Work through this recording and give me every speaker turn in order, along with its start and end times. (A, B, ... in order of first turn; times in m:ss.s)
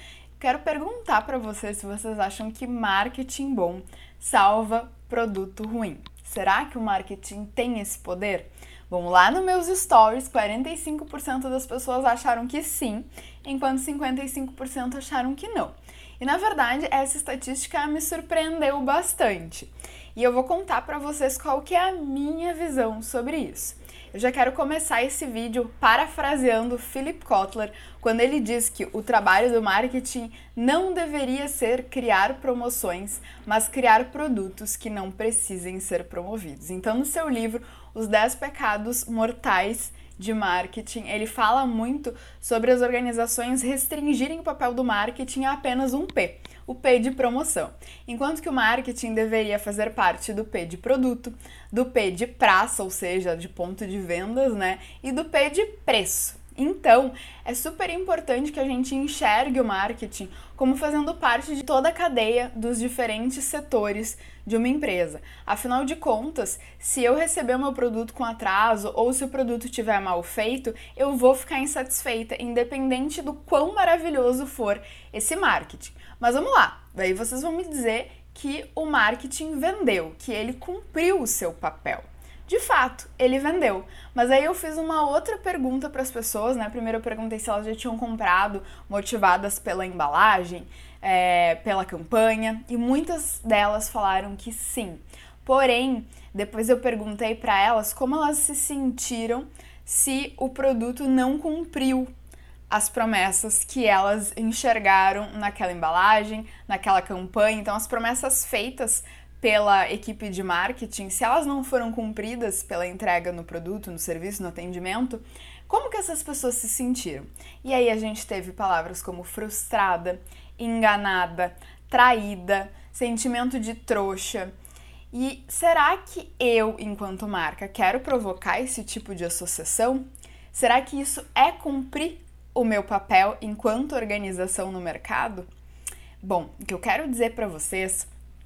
0:00.4-1:42.1 A
1:42.7-2:04.5 A
2:05.1-2:15.5 A
2:16.2-2:18.1 A